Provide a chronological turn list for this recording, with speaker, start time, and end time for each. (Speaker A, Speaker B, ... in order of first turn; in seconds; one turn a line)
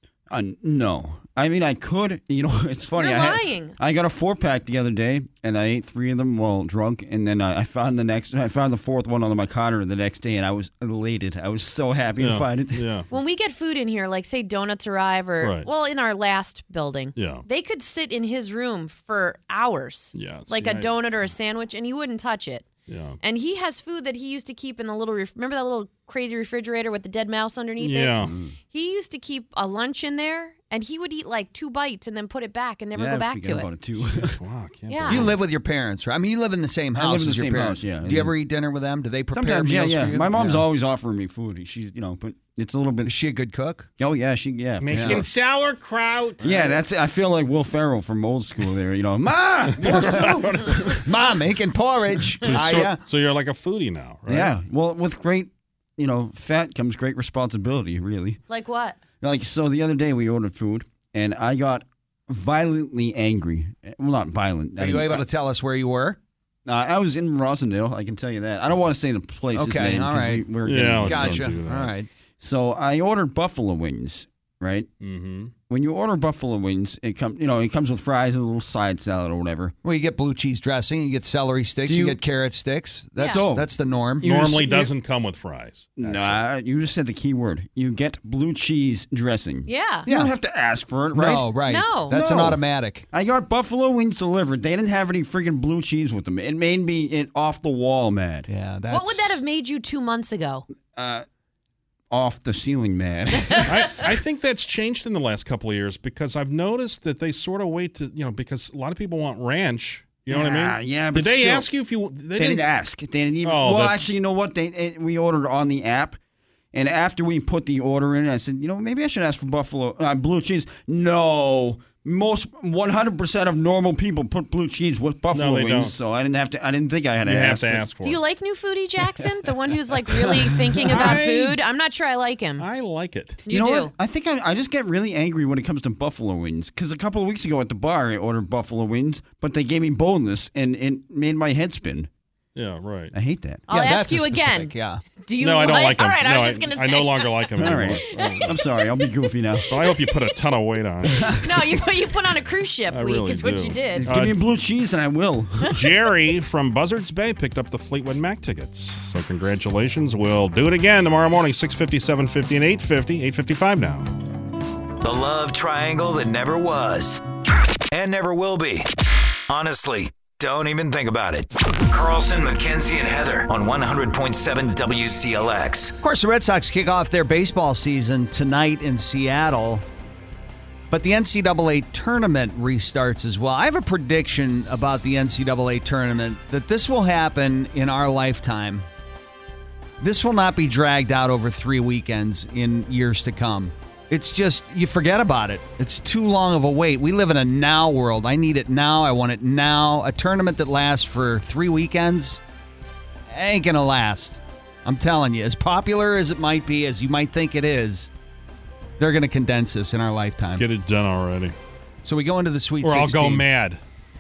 Speaker A: 0.3-12.8
Speaker B: 3.0-3.8
Speaker C: 12.2-13.1
Speaker B: 13.1-22.7
Speaker C: 15.4-15.7
Speaker C: 17.1-17.4
Speaker C: 20.1-21.0
Speaker C: 22.9-23.2
Speaker B: 23.2-28.2
Speaker C: 27.8-28.3
Speaker B: 28.7-33.7
Speaker A: 33.0-34.4
Speaker C: 34.0-35.4
Speaker B: 34.9-35.2
Speaker D: 35.1-40.6
Speaker A: 37.0-38.4
Speaker A: 39.3-43.1
Speaker D: 43.0-43.9
Speaker A: 44.0-45.2
Speaker C: 44.8-46.7
Speaker D: 44.9-45.2
Speaker A: 46.4-50.9
Speaker C: 49.8-51.0
Speaker D: 49.8-50.4
Speaker D: 50.9-53.0
Speaker C: 52.4-54.5
Speaker A: 54.3-58.4
Speaker B: 58.5-59.0
Speaker A: 59.2-65.2
Speaker D: 64.8-66.2
Speaker A: 66.7-71.6
Speaker D: 69.5-72.1
Speaker C: 70.6-71.9
Speaker A: 72.4-74.9
Speaker C: 75.0-75.5
Speaker A: 75.7-79.7
Speaker D: 79.8-84.8
Speaker A: 81.9-82.2
Speaker B: 83.2-83.4
Speaker A: 83.2-83.7
Speaker C: 84.2-86.4
Speaker A: 86.0-91.5
Speaker B: 89.7-90.1
Speaker D: 90.1-90.3
Speaker D: 91.1-93.0
Speaker B: 91.7-92.2
Speaker A: 92.1-98.5
Speaker D: 98.5-99.3
Speaker B: 98.9-100.7
Speaker A: 101.0-101.2
Speaker A: 102.1-103.8
Speaker C: 103.7-112.7
Speaker A: 110.3-111.7
Speaker A: 112.4-116.2
Speaker C: 113.4-114.0
Speaker A: 116.7-127.8
Speaker C: 125.3-125.9
Speaker C: 127.2-128.2
Speaker B: 128.0-132.7
Speaker C: 130.8-131.6
Speaker C: 132.6-133.4
Speaker B: 133.5-133.9
Speaker A: 133.5-142.1
Speaker C: 142.6-143.1
Speaker A: 143.1-143.7
Speaker D: 143.7-145.0
Speaker B: 143.7-147.4
Speaker C: 145.4-148.5
Speaker A: 147.6-149.7
Speaker C: 149.7-151.6
Speaker B: 151.4-154.1
Speaker C: 152.9-154.4
Speaker A: 154.0-155.8
Speaker C: 155.7-164.1
Speaker E: 165.0-167.2
Speaker E: 167.9-168.9
Speaker E: 169.5-176.0
Speaker D: 176.0-179.8
Speaker D: 180.9-188.9
Speaker D: 190.0-202.4
Speaker D: 203.3-208.1
Speaker D: 209.0-210.6
Speaker C: 210.6-211.6
Speaker D: 212.0-213.5
Speaker C: 212.8-213.8